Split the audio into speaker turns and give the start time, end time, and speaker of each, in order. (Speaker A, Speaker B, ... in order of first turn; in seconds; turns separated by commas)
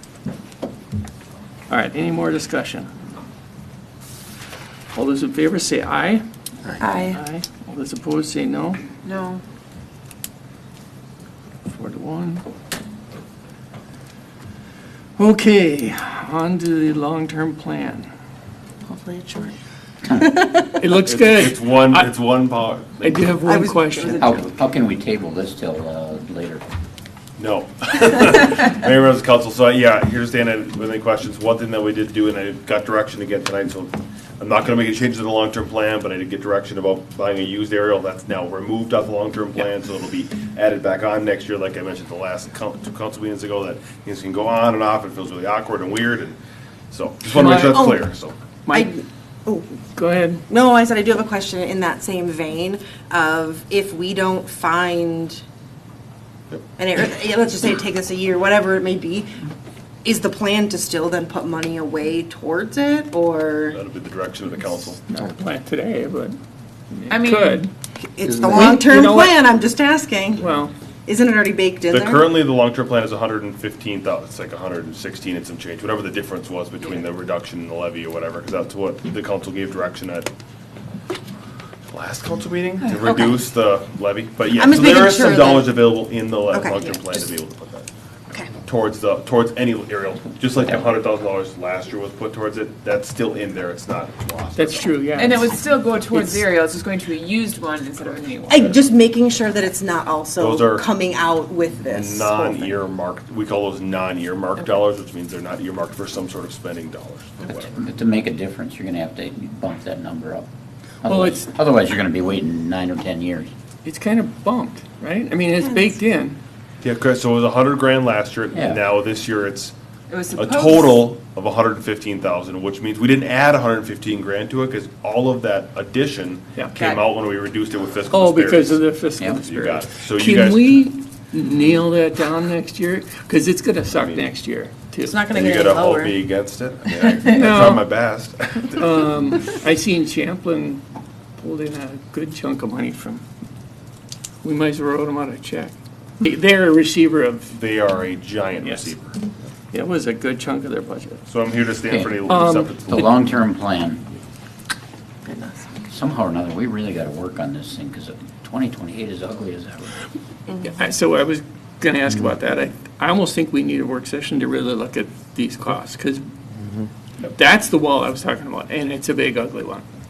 Speaker A: 1.7-2.9, Speaker A: 4.9-6.2, Speaker B: 6.8-7.2, Speaker A: 7.1-8.8, Speaker B: 9.0-9.4, Speaker A: 11.7-12.4, Speaker A: 15.2-18.1, Speaker C: 18.9-19.5, Speaker C: 20.1-20.7, Speaker A: 20.7-22.1, Speaker D: 21.0-23.3, Speaker A: 23.0-24.3, Speaker C: 23.4-24.4, Speaker E: 24.1-26.6, Speaker D: 27.4-46.4, Speaker D: 46.9-48.4, Speaker A: 47.3-48.0, Speaker C: 47.4-48.0, Speaker A: 48.6-48.9, Speaker C: 48.7-49.7, Speaker A: 49.9-50.4, Speaker C: 50.5-55.4, Speaker C: 56.8-59.4, Speaker C: 60.0-63.8, Speaker D: 63.7-65.0, Speaker A: 65.1-66.4, Speaker A: 66.9-67.7, Speaker B: 67.1-67.6, Speaker C: 68.0-70.5, Speaker A: 68.4-69.4, Speaker A: 70.4-70.7, Speaker C: 71.0-72.4, Speaker D: 71.9-80.3, Speaker D: 81.9-87.9, Speaker B: 82.8-83.4, Speaker C: 84.5-87.3, Speaker D: 88.6-95.0, Speaker A: 94.5-95.6, Speaker B: 95.1-98.7, Speaker A: 96.1-96.4, Speaker C: 98.5-102.8, Speaker D: 100.4-100.9, Speaker D: 101.9-107.8, Speaker E: 107.7-110.5, Speaker E: 111.0-113.5, Speaker A: 111.0-111.5, Speaker A: 113.8-116.4, Speaker C: 115.6-115.9, Speaker D: 116.8-119.7, Speaker E: 118.5-118.8, Speaker B: 120.1-121.1, Speaker D: 120.4-130.8, Speaker B: 126.7-127.1, Speaker A: 128.1-135.2, Speaker D: 133.9-134.2, Speaker B: 135.0-136.3, Speaker D: 135.2-139.1, Speaker B: 136.8-137.6, Speaker A: 137.3-137.9, Speaker A: 138.8-140.8, Speaker A: 141.4-143.2, Speaker A: 144.4-147.5, Speaker D: 147.5-149.2, Speaker A: 148.6-148.9, Speaker A: 149.7-151.2, Speaker D: 151.2-153.2, Speaker E: 151.8-152.4, Speaker A: 152.3-153.0, Speaker E: 152.9-154.0, Speaker C: 155.2-155.7, Speaker E: 155.9-159.9, Speaker A: 160.6-166.3, Speaker A: 167.3-169.8